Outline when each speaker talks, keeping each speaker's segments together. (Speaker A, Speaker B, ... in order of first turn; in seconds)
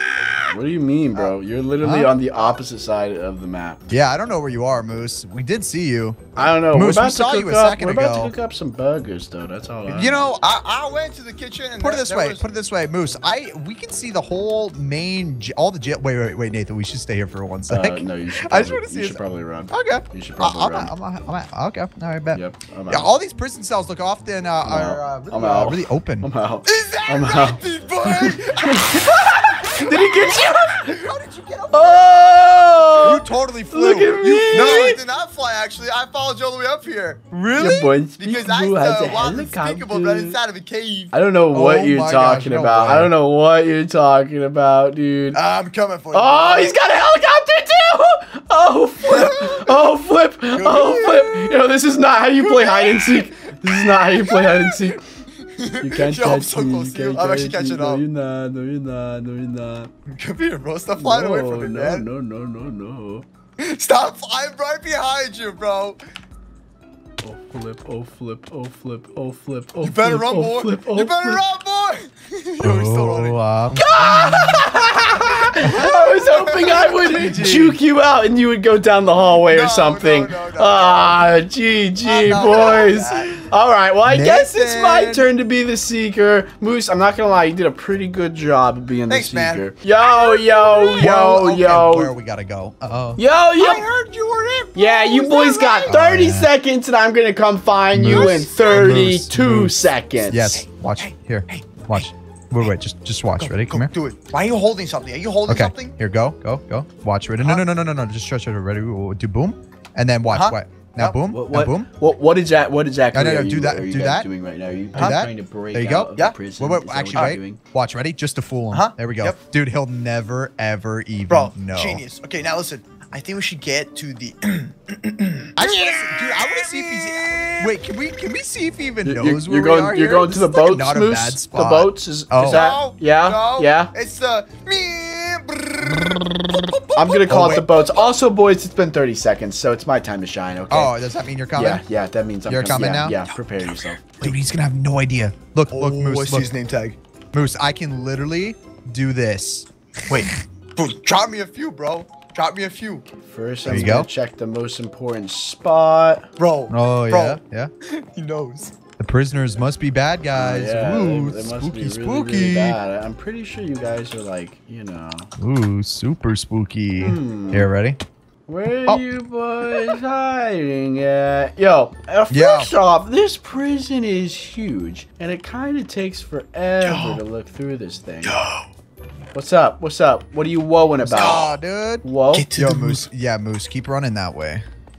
Speaker A: 0.2-0.5, 10.2-12.5, 26.7-33.3, 34.5-41.1, 45.3-46.7, 49.1-49.8, 50.5-51.5, 52.4-53.3, 54.0-58.0, 60.1-62.1, 63.6-66.0, 69.8-74.3, 75.6-77.6, 79.5-81.4, 82.0-83.4, 89.2-89.5, 90.0-91.1, 93.6-96.0, 98.1-99.0, 101.0-102.0, 103.3-105.9, 107.4-107.7, 110.3-111.2, 115.0-115.2, 118.7-119.4, 121.3-127.8, 132.4-138.1, 145.7-147.0, 150.1-153.1, 156.4-158.7, 176.8-177.2, 178.2-178.6, 182.3-183.1
Speaker B: 0.4-3.8, 6.3-10.3, 17.7-20.9, 22.3-23.1, 24.6-31.1, 31.7-35.0, 37.6-40.4, 41.1-45.4, 46.1-55.0, 55.8-59.9, 60.9-63.2, 67.2-71.4, 73.8-92.1, 93.2-93.9, 94.8-100.6, 111.2-117.6, 129.0-133.9, 136.9-141.0, 141.5-144.2, 153.1-156.3, 160.3-165.3, 167.0-167.7, 168.5-178.4, 179.3-182.5
Speaker C: 1.8-2.2, 3.9-8.3, 9.9-10.3, 11.8-26.3, 33.0-34.8, 37.3-37.9, 41.5-43.1, 72.6-74.6, 75.6-76.0, 77.2-77.8, 82.2-83.0, 84.1-85.3, 89.1-89.4, 91.0-93.2, 95.9-96.5, 97.9-103.9, 105.5-111.9, 113.1-114.3, 115.0-122.0, 125.6-132.7, 137.2-137.7, 140.7-141.8, 142.5-143.2, 144.2-146.5, 147.3-149.7, 153.7-154.1, 156.7-157.7, 159.0-162.8, 165.4-168.0, 172.3-172.7, 181.0-184.6